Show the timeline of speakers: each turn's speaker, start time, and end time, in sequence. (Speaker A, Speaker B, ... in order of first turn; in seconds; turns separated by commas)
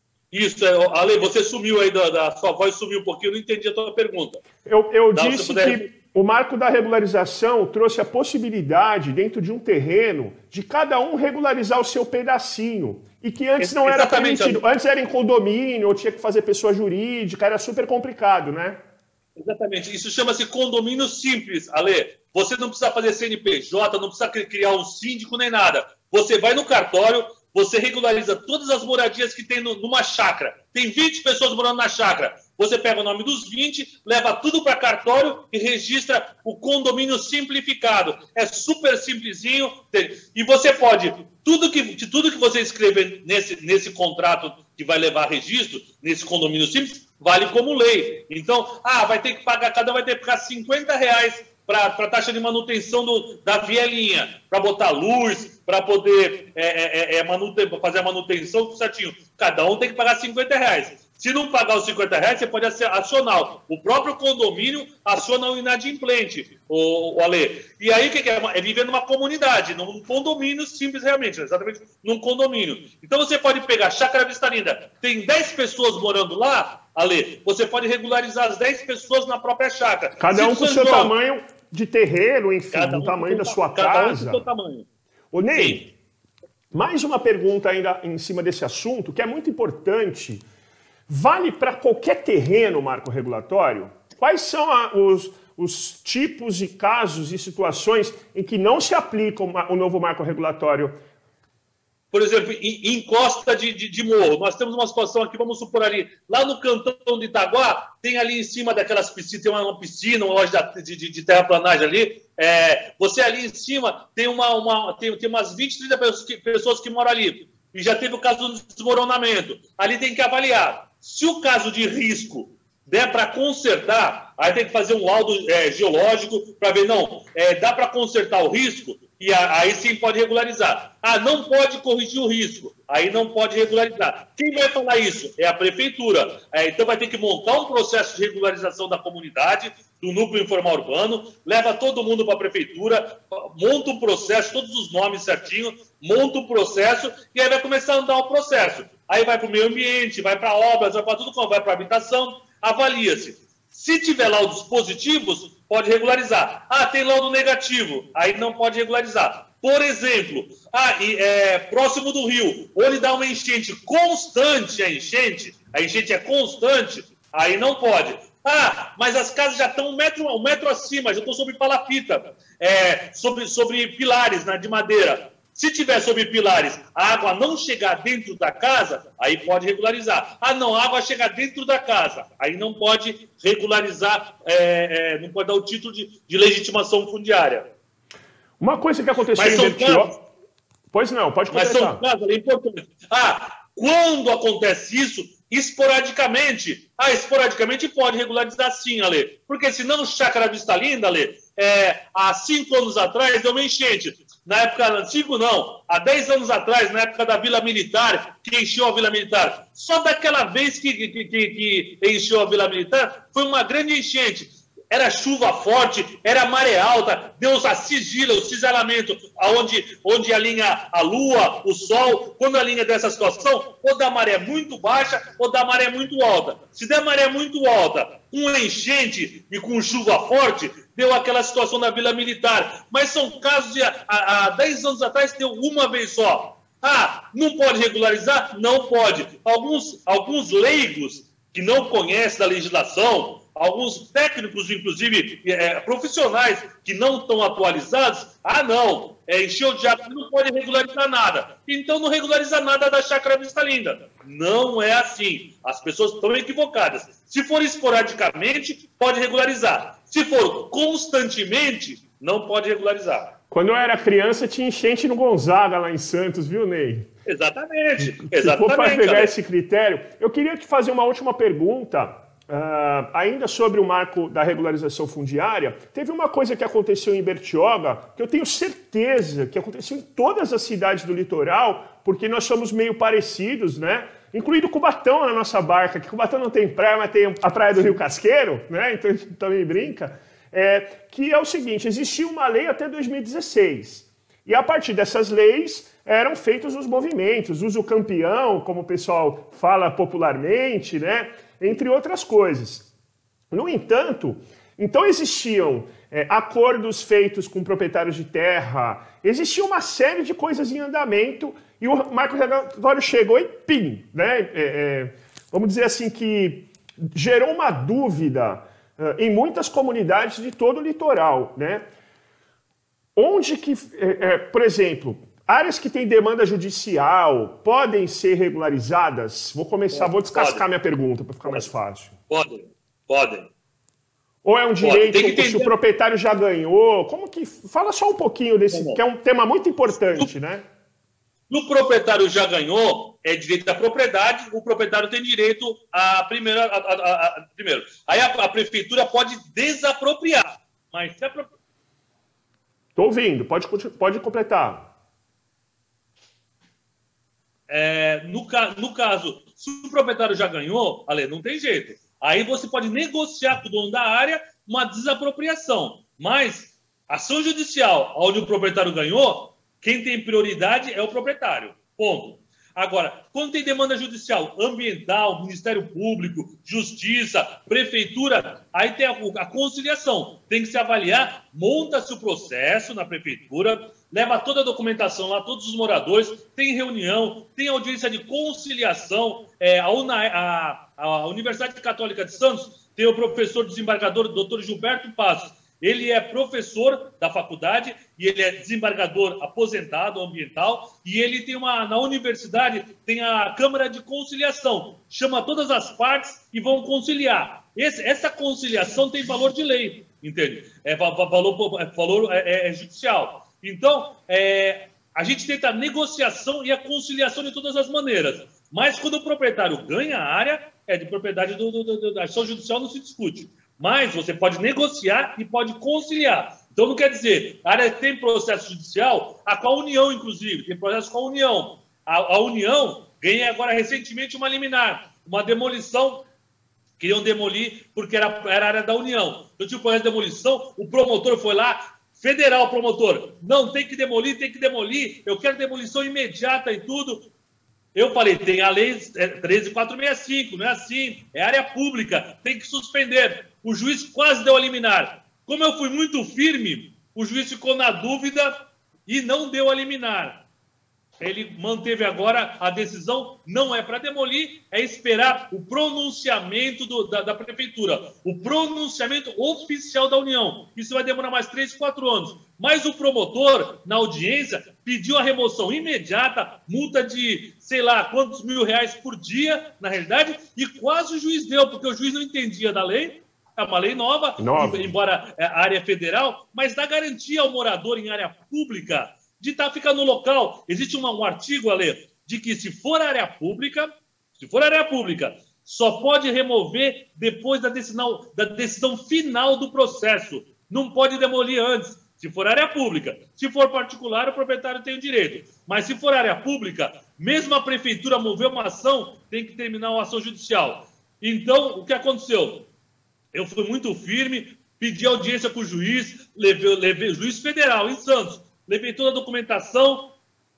Speaker A: 0.3-4.4, Speaker B: 4.6-18.8, Speaker A: 5.1-5.8, Speaker A: 13.6-14.6, Speaker A: 19.4-81.1, Speaker B: 80.2-84.4, Speaker A: 82.7-84.8, Speaker B: 85.3-85.9, Speaker A: 85.5-85.8, Speaker B: 86.7-90.4, Speaker B: 91.1-101.0, Speaker A: 102.1-187.7, Speaker B: 188.6-190.2, Speaker A: 189.3-190.1, Speaker B: 190.9-192.0, Speaker A: 191.5-263.3, Speaker B: 263.5-267.1, Speaker A: 267.2-269.3, Speaker B: 268.2-302.9, Speaker B: 303.5-321.9, Speaker B: 323.1-332.1, Speaker A: 329.9-330.6, Speaker A: 332.3-333.5, Speaker B: 334.4-340.6, Speaker A: 334.8-335.7, Speaker A: 338.7-339.0, Speaker A: 341.5-351.5, Speaker B: 352.9-354.9, Speaker A: 357.7-436.2, Speaker A: 437.0-447.3, Speaker A: 447.9-460.4, Speaker A: 461.2-512.7, Speaker B: 484.4-484.9, Speaker A: 513.3-520.1